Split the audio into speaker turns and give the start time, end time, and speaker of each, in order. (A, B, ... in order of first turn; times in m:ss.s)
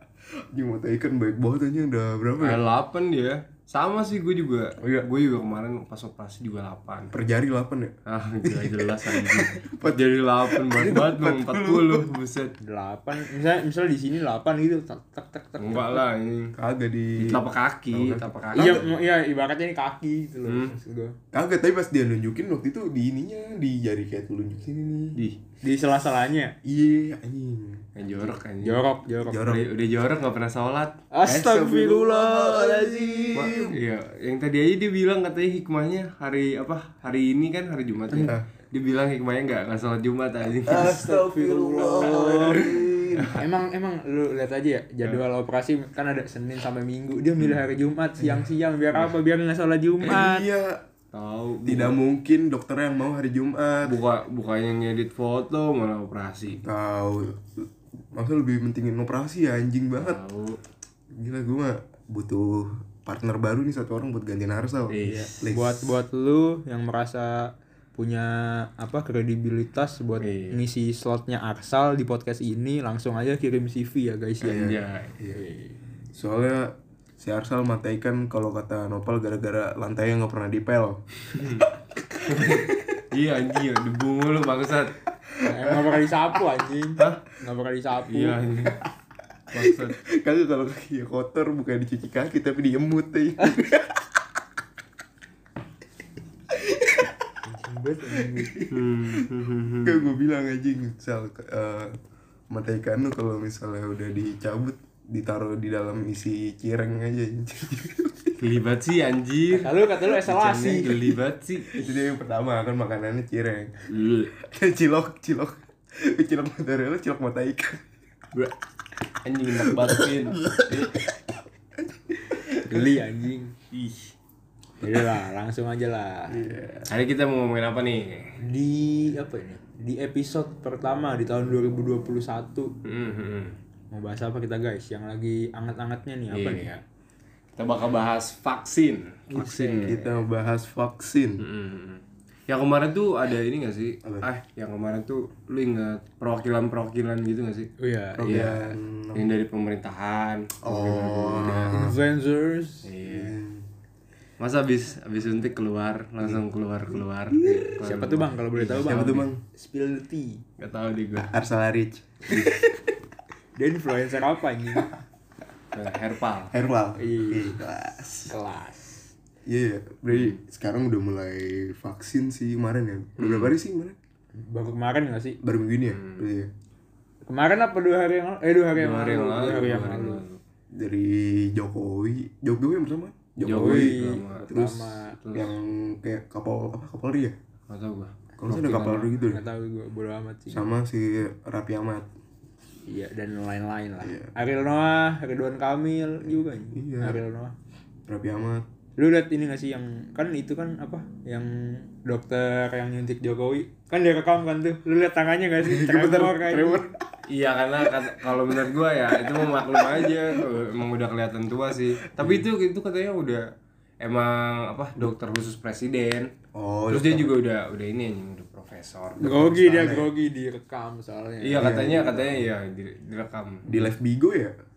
0:00.5-0:02.6 A
0:02.4-0:07.1 B
0:04.8-0:05.1 A
0:07.1-0:12.1 A
0:08.0-0:12.6 B
0:12.6-0:16.0 C
0:15.6-0:16.5 B
0:16.6-0:18.9 A
0:17.2-0:18.8 B
0:18.5-0:21.2 C
0:20.4-0:20.8 B
0:21.3-0:25.2 A
0:25.6-0:26.5 C
0:26.6-0:28.0 A
0:27.9-0:28.8 B
0:28.6-0:29.5 C
0:29.2-0:29.7 A
0:29.4-0:31.0 B
0:31.1-0:33.7 C
0:31.2-0:33.8 A
0:33.3-0:41.1 B
0:38.2-0:38.4 A
0:40.6-0:43.4 A
0:40.7-0:42.7 C
0:42.6-0:43.4 B
0:43.3-0:50.5 C
0:50.0-0:50.8 A
0:51.1-0:52.0 B
0:51.6-0:54.0 A
0:53.8-0:56.6 B
0:56.6-1:00.2 A
1:00.0-1:00.6 B
1:01.1-1:05.9 A
1:04.9-1:05.5 B
1:05.0-1:15.8 C
1:10.2-1:10.6 B
1:14.4-1:15.1 B
1:14.4-1:15.4 A
1:16.1-1:21.0 A
1:21.3-1:21.7 B
1:21.6-1:23.0 A
1:22.2-1:24.9 B
1:25.2-1:26.4 A
1:25.4-1:28.4 C
1:28.0-1:28.8 B
1:29.5-1:30.0 B
1:29.5-1:34.2 A
1:36.5-1:37.3 A
1:37.4-1:38.6 C
1:38.2-1:39.2 A
1:38.7-1:40.0 B
1:39.8-1:42.0 A
1:42.5-1:48.3 A
1:48.4-1:51.8 B
1:49.5-1:51.2 C
1:51.7-1:53.8 A
1:53.9-1:54.3 B
1:54.4-1:57.8 A
1:59.2-2:01.0 B
1:59.5-2:02.9 A
2:02.6-2:03.5 C
2:03.7-2:04.1 B
2:04.8-2:06.4 C
2:06.3-2:06.9 A
2:06.9-2:08.4 B
2:08.4-2:12.7 C
2:12.8-2:13.6 B
2:13.9-2:16.8 C
2:16.3-2:16.7 B
2:17.6-2:20.0 B
2:19.3-2:20.1 C
2:19.8-2:21.4 A
2:21.4-2:27.7 B
2:27.8-2:28.6 C
2:28.2-2:29.3 A
2:28.2-2:31.7 B
2:30.6-2:32.0 A
2:31.7-2:32.9 C
2:32.8-2:33.4 B
2:33.0-2:33.7 A
2:34.4-2:39.2 B
2:37.3-2:37.8 A
2:37.4-2:40.4 C
2:38.8-2:39.4 A
2:40.6-2:41.3 B
2:41.3-2:42.9 A
2:43.6-2:44.9 C
2:45.7-2:46.5 B
2:46.5-2:48.3 A
2:47.0-2:47.6 C
2:48.3-2:49.1 C
2:49.4-2:54.0 A
2:50.1-2:50.4 B
2:53.2-2:53.5 B
2:54.4-2:55.4 C
2:55.4-2:56.5 A
2:55.9-2:56.3 B
2:57.2-3:00.2 C
2:58.7-3:00.4 B
3:00.7-3:07.4 A
3:03.4-3:04.4 B
3:03.5-3:05.2 C
3:05.2-3:05.5 B
3:07.7-3:09.1 B
3:08.4-3:09.4 A
3:08.7-3:10.6 C
3:10.5-3:12.1 A
3:12.9-3:17.5 C
3:14.0-3:14.3 A
3:16.2-3:17.2 A
3:18.1-3:18.6 A
3:19.0-3:26.9 C
3:25.6-3:27.2 A
3:27.3-3:33.5 B
3:27.8-3:30.5 A
3:32.1-3:32.4 A
3:34.0-3:36.3 B
3:36.5-3:37.4 A
3:36.9-3:40.0 B
3:39.2-3:41.8 C
3:39.3-3:40.1 A
3:41.4-3:43.8 B
3:41.6-3:42.5 A
3:43.6-3:44.6 A